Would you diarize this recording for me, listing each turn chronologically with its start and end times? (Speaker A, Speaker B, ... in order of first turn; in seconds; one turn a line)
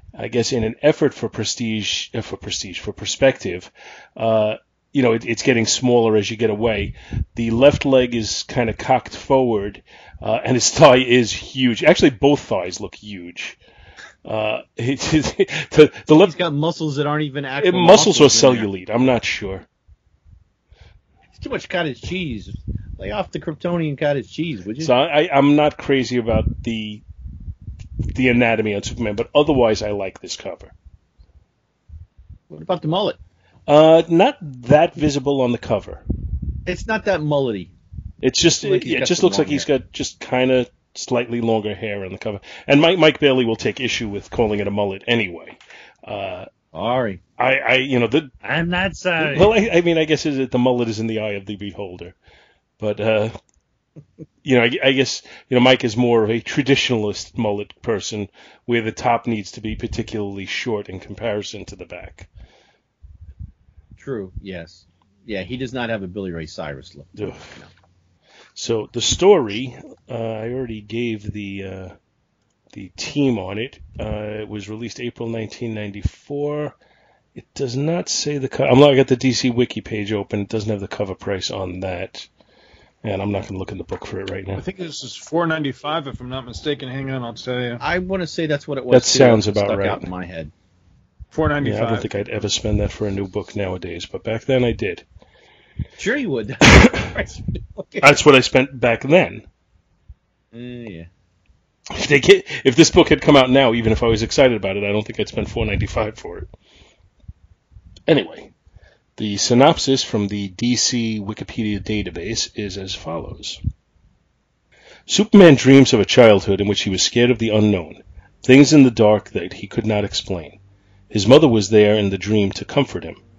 Speaker A: 0.2-13.6
Speaker A: 14.3-16.4
Speaker B: 16.2-18.7
Speaker A: 17.6-19.7
Speaker B: 21.3-24.9
Speaker A: 24.8-27.0
Speaker A: 28.1-30.7
Speaker B: 32.5-33.2
Speaker A: 33.7-36.0
Speaker B: 36.7-37.7
Speaker A: 38.2-46.5
Speaker B: 38.6-39.7
Speaker B: 46.7-47.2
Speaker A: 47.4-48.4
Speaker B: 48.4-49.6
Speaker A: 49.2-52.2
Speaker A: 52.8-53.3
Speaker A: 54.4-62.3
Speaker B: 64.0-67.7
Speaker A: 67.2-67.6
Speaker A: 68.6-72.0
Speaker A: 72.7-76.8
Speaker A: 77.4-82.3
Speaker A: 83.0-84.6
Speaker C: 84.6-87.8
Speaker B: 87.8-90.5
Speaker A: 88.9-90.1
Speaker C: 91.3-92.1
Speaker A: 91.6-95.0
Speaker B: 96.0-98.1
Speaker A: 96.7-97.2
Speaker A: 98.0-99.5
Speaker B: 100.5-101.1
Speaker A: 101.9-106.5
Speaker A: 108.1-108.5
Speaker A: 109.2-113.6
Speaker A: 115.1-120.6
Speaker A: 121.1-123.2